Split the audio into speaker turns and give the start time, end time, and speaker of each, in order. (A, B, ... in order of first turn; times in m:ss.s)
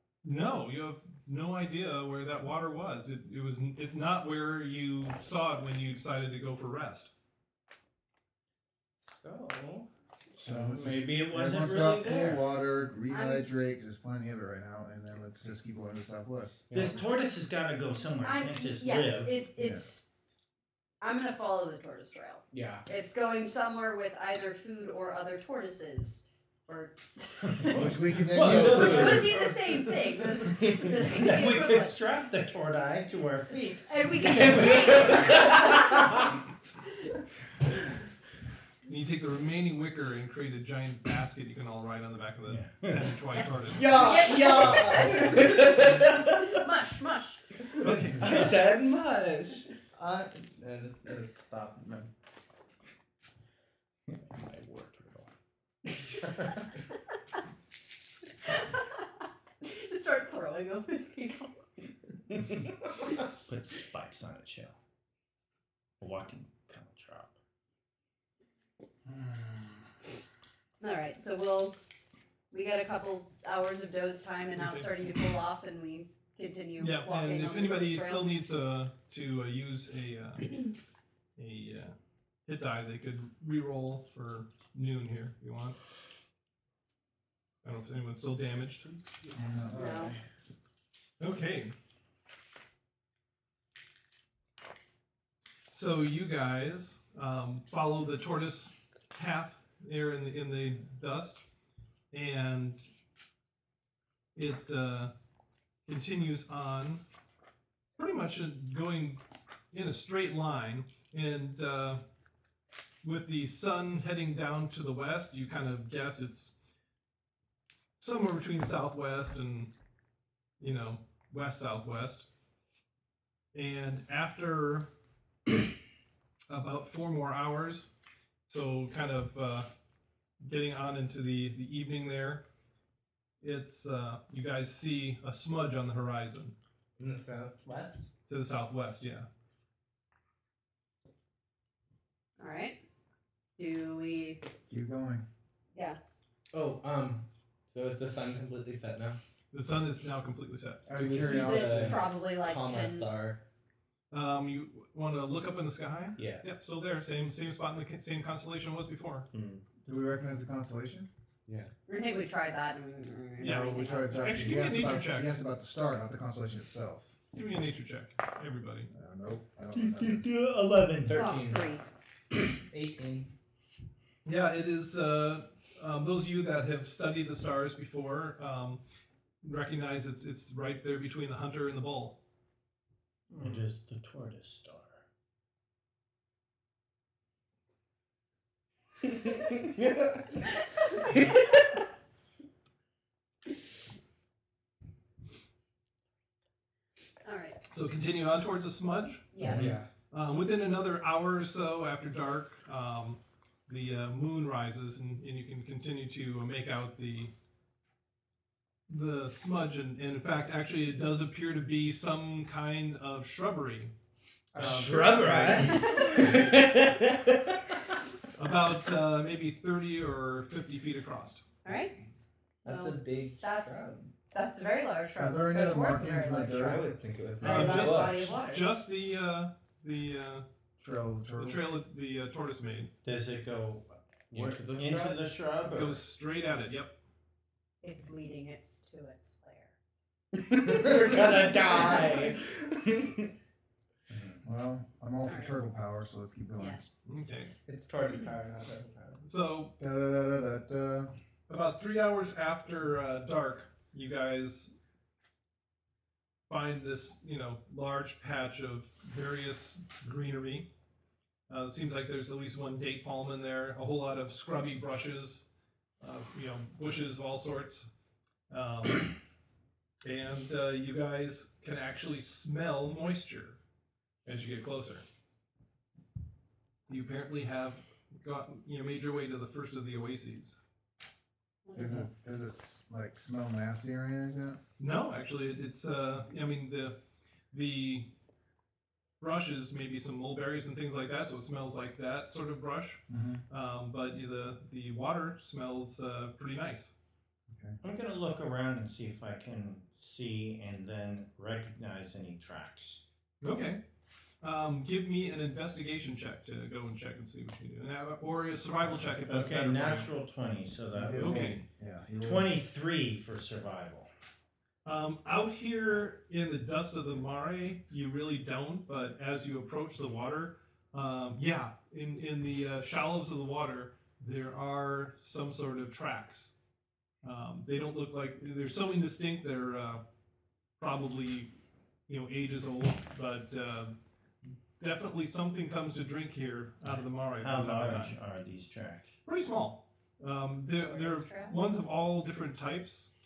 0:00.2-0:07.1 A
0:09.0-0:09.9 B
0:10.4-0:17.0 C
0:10.5-0:12.4 D
0:13.1-0:13.5 E
0:16.7-0:17.0 F
0:16.7-0:19.4 D
0:18.2-0:20.1 E
0:19.6-0:19.8 C
0:21.0-0:27.9 E
0:22.5-0:22.8 F
0:27.5-0:29.3 D
0:27.7-0:29.3 C
0:28.3-0:29.3 A
0:28.4-0:29.1 F
0:28.6-0:32.0 E
0:31.0-0:35.4 D
0:33.9-0:35.9 E
0:38.8-0:44.0 A
0:42.5-0:43.2 D
0:43.7-0:46.2 B
0:43.8-0:46.1 F
0:43.8-0:47.4 E
0:47.8-0:48.2 A
0:47.8-0:52.1 B
0:54.1-0:55.3 D
0:58.5-0:59.0 E
0:59.6-1:01.6 E
1:03.4-1:04.8 D
1:06.0-1:07.3 D
1:09.0-1:09.8 C
1:10.8-1:11.8 E
1:12.5-1:18.4 E
1:14.6-1:14.9 A
1:16.8-1:20.7 A
1:21.4-1:21.9 A
1:22.4-1:25.8 A
1:27.6-1:28.9 A
1:29.3-1:30.1 C
1:29.7-1:30.1 E
1:31.2-1:31.7 A
1:35.7-1:41.4 A
1:42.1-1:42.8 A
1:44.3-1:45.1 A
1:45.8-1:47.0 A
1:48.0-1:49.2 A
1:49.7-1:52.0 A
1:53.0-1:56.5 A
1:58.0-1:59.7 A
2:00.6-2:02.3 A
2:03.5-2:04.9 A
2:06.5-2:07.9 A
2:08.4-2:09.7 A
2:10.4-2:12.4 A
2:13.4-2:16.5 A
2:17.0-2:18.0 B
2:18.3-2:19.3 A
2:22.4-2:22.8 E
2:23.6-2:24.4 E
2:24.7-2:25.2 C
2:26.5-2:29.2 F
2:29.5-2:30.9 A
2:30.8-2:33.4 F
2:30.9-2:32.1 C
2:31.2-2:33.1 E
2:34.1-2:39.3 A
2:36.2-2:36.5 F
2:39.3-2:39.6 F
2:39.8-2:41.1 C
2:41.4-2:41.7 F
2:41.9-2:44.6 E
2:43.4-2:45.3 A
2:43.4-2:47.1 C
2:47.3-2:48.9 A
2:48.9-2:50.2 C
2:49.7-2:51.2 D
2:51.0-2:51.7 F
2:51.1-2:51.8 E
2:52.7-2:53.3 B
2:54.2-2:58.8 A
2:59.4-3:02.2 A
3:03.4-3:05.0 D
3:17.2-3:17.6 E
3:17.7-3:27.3 A
3:19.3-3:19.7 E
3:19.4-3:19.9 F
3:28.9-3:33.9 A
3:34.5-3:36.5 A
3:34.6-3:37.6 D
3:35.6-3:36.3 E
3:36.2-3:36.6 F
3:38.4-3:41.4 A
3:41.6-3:42.0 E
3:42.6-3:44.1 B
3:42.6-3:46.9 E
3:45.2-3:47.0 C
3:46.3-3:48.3 F
3:47.4-3:48.7 E
3:47.4-3:50.4 A
3:50.8-3:51.6 C
3:51.4-3:52.9 A
3:53.0-3:56.0 D
3:54.3-3:55.3 F
3:55.7-3:56.9 A
3:57.8-3:59.7 E
4:00.4-4:03.2 F
4:01.8-4:02.3 E
4:04.4-4:06.9 C
4:05.2-4:05.5 E
4:06.6-4:06.8 E
4:07.0-4:07.5 A
4:07.7-4:09.2 B
4:09.2-4:09.7 A
4:09.8-4:11.1 C
4:11.5-4:14.7 A
4:16.5-4:20.7 A
4:21.5-4:25.4 A
4:26.0-4:27.9 A
4:28.5-4:29.1 A
4:30.0-4:33.6 A
4:34.2-4:35.0 A
4:36.9-4:40.6 A
4:41.6-4:42.1 E
4:41.7-4:44.6 C
4:44.8-4:47.0 A
4:47.5-4:48.1 A
4:49.2-4:56.9 A
4:53.1-4:53.4 C
4:57.5-4:57.8 C
4:57.8-5:03.0 D
5:03.4-5:03.8 A
5:04.4-5:10.1 A
5:09.3-5:11.6 D
5:10.9-5:12.5 C
5:11.1-5:11.6 A
5:12.2-5:14.1 D
5:14.8-5:26.5 A
5:27.2-5:30.0 A
5:30.8-5:31.5 A
5:32.1-5:33.9 A
5:34.8-5:38.2 A
5:37.4-5:39.1 D
5:39.2-5:43.1 A
5:40.7-5:41.8 E